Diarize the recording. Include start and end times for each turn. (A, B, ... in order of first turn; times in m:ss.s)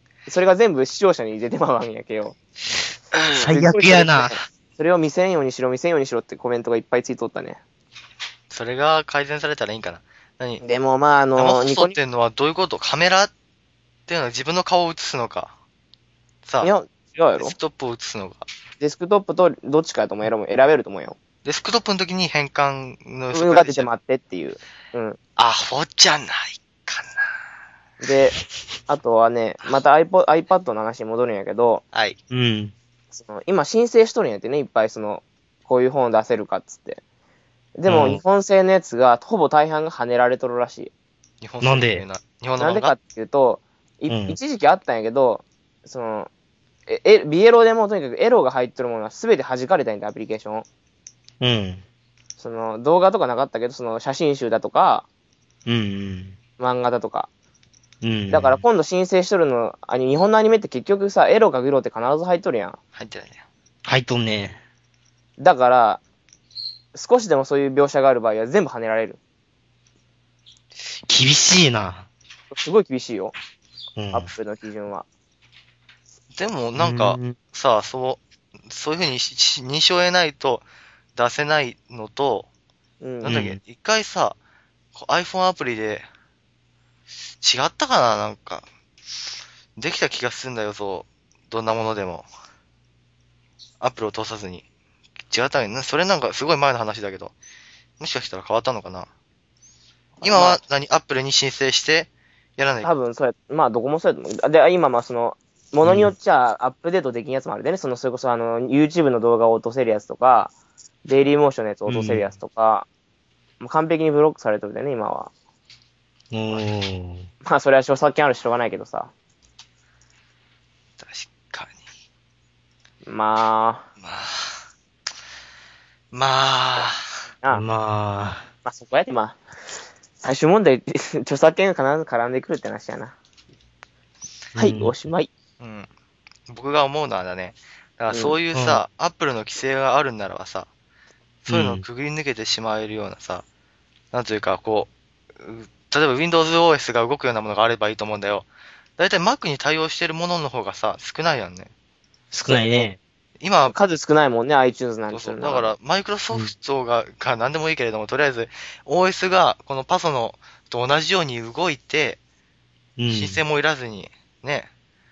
0:00.3-0:02.4 A
0:03.4-0:04.4 B
0:03.4-0:07.6 A
0:08.5-0:10.6 C
0:10.6-0:12.0 A
0:11.4-0:13.3 C
0:14.1-0:15.5 C
0:16.4-0:16.7 C
0:16.6-0:17.6 A
0:17.4-0:18.5 C
0:18.8-0:21.2 A
0:21.4-0:23.9 C
0:23.3-0:25.2 A
0:25.4-0:27.3 C
0:28.0-0:28.4 A
0:28.9-0:31.8 A
0:31.9-0:32.2 C
0:32.3-0:32.7 B
0:33.1-0:37.0 A
0:37.8-0:40.9 A
0:37.9-0:38.2 B
0:41.4-0:43.0 C
0:41.6-0:42.0 B
0:42.6-0:46.3 A
0:44.1-0:44.4 B
0:46.9-0:50.7 A
0:51.4-0:51.8 B
0:52.4-0:55.1 A
0:55.7-0:56.4 B
0:56.6-0:57.3 A
0:58.0-0:58.6 B
0:58.3-1:02.8 A
1:03.0-1:03.4 C
1:03.9-1:04.6 B
1:05.4-1:06.0 A
1:06.9-1:09.2 A
1:11.0-1:12.1 B
1:12.5-1:13.3 A
1:14.0-1:14.3 B
1:14.1-1:15.1 A
1:16.4-1:22.5 C
1:16.8-1:17.4 B
1:23.0-1:23.4 A
1:23.2-1:24.4 C
1:23.2-1:23.6 B
1:24.9-1:26.0 C
1:27.4-1:28.7 C
1:29.8-1:32.3 C
1:33.8-1:34.6 C
1:35.3-1:37.3 C
1:38.0-1:39.1 C
1:40.2-1:40.6 A
1:40.2-1:42.9 C
1:42.8-1:50.5 A
1:45.8-1:46.1 B
1:51.0-1:52.9 A
1:51.9-1:52.3 B
1:53.6-1:55.3 A
1:56.3-1:57.3 B
1:57.4-1:59.1 A
2:01.0-2:01.8 C
2:03.0-2:03.9 A
2:04.0-2:04.6 C
2:06.1-2:07.0 C
2:07.5-2:08.5 B
2:08.6-2:09.4 A
2:10.2-2:13.2 A
2:14.6-2:15.0 B
2:14.6-2:15.3 A
2:15.6-2:15.9 C
2:16.5-2:20.7 C
2:18.1-2:18.4 A
2:18.5-2:18.8 B
2:21.5-2:23.4 C
2:21.5-2:21.8 B
2:24.1-2:31.7 C
2:32.3-2:33.0 B
2:32.5-2:32.9 A
2:33.4-2:33.8 C
2:33.7-2:35.7 A
2:35.1-2:42.2 C
2:43.0-2:43.4 B
2:43.1-2:44.7 C